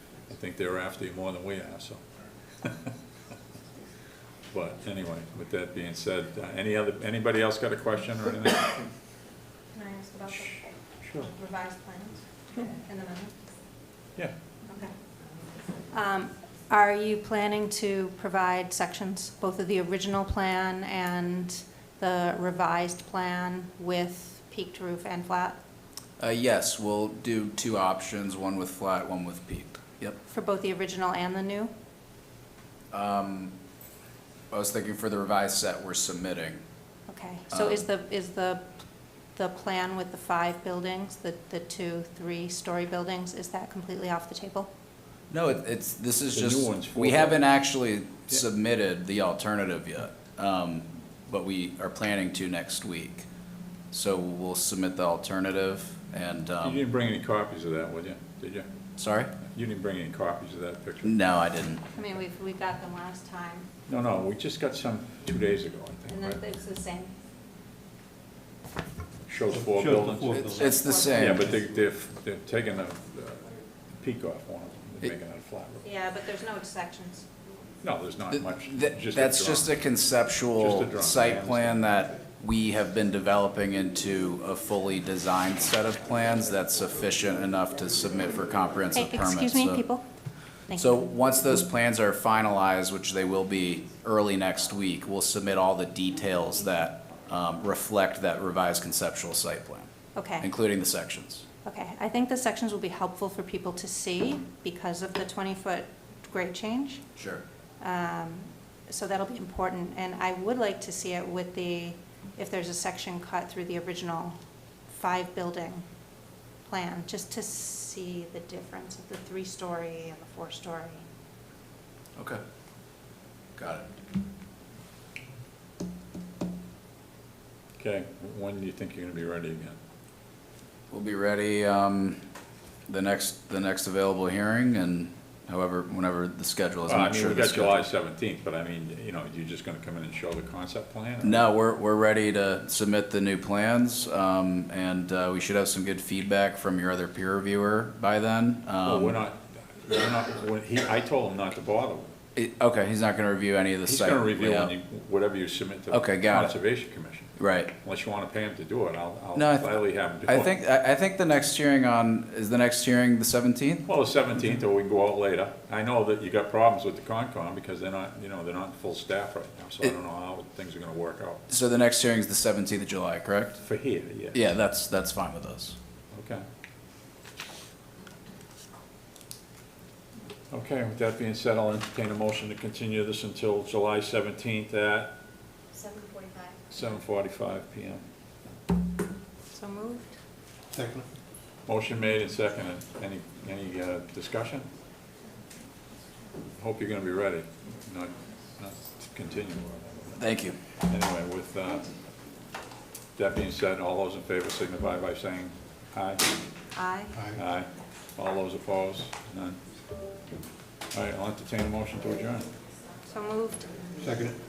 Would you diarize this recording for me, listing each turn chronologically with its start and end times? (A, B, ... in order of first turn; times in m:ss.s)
0:00.3-0:02.0 A
0:02.6-0:02.9 A
0:04.5-0:08.8 A
0:09.7-0:13.3 B
0:15.9-0:25.6 B
0:26.2-0:30.2 C
0:30.3-0:31.7 B
0:32.9-0:33.5 C
0:34.5-0:36.6 C
0:37.1-0:38.7 B
0:37.5-0:37.8 C
0:39.3-0:44.7 B
0:45.3-0:53.3 C
0:46.3-0:47.4 A
0:53.9-0:56.8 C
0:56.6-0:58.7 A
0:59.0-0:59.3 C
0:59.4-1:01.2 A
1:01.0-1:01.8 C
1:02.0-1:03.7 B
1:03.9-1:06.4 A
1:06.1-1:07.1 B
1:09.3-1:10.6 A
1:09.5-1:10.8 D
1:10.3-1:11.6 B
1:10.6-1:11.5 C
1:11.1-1:13.5 A
1:14.0-1:15.8 A
1:15.8-1:17.3 B
1:17.8-1:19.7 A
1:18.3-1:29.8 C
1:20.6-1:21.9 A
1:28.9-1:30.0 B
1:30.7-1:31.0 B
1:30.8-1:39.9 C
1:40.2-1:40.5 B
1:40.4-1:41.4 C
1:41.6-1:47.0 B
1:47.2-1:47.4 C
1:47.8-1:54.4 B
1:54.9-1:55.9 B
1:56.7-2:01.0 B
2:03.6-2:03.9 C
2:07.8-2:09.8 A
2:10.9-2:12.2 C
2:12.9-2:17.8 C
2:16.9-2:21.4 A
2:21.2-2:29.2 C
2:28.8-2:32.1 A
2:32.4-2:34.7 C
2:33.8-2:40.5 A
2:35.9-2:36.6 C
2:37.4-2:37.7 C
2:39.3-2:43.8 C
2:43.8-2:51.4 A
2:51.5-2:53.6 C
2:53.6-2:54.4 A
2:54.3-2:55.8 C
2:56.1-2:56.4 A
3:00.5-3:05.1 A
3:05.7-3:06.5 B
3:06.7-3:08.0 A
3:09.5-3:10.1 B
3:10.7-3:11.1 D
3:11.7-3:14.7 A
3:16.6-3:20.2 A
3:20.2-3:20.6 C
3:20.8-3:21.9 A
3:23.2-3:26.2 A
3:26.8-3:27.2 B
3:27.1-3:27.4 D
3:27.3-3:29.6 A
3:30.9-3:32.5 A
3:33.1-3:33.6 B
3:34.0-3:34.4 D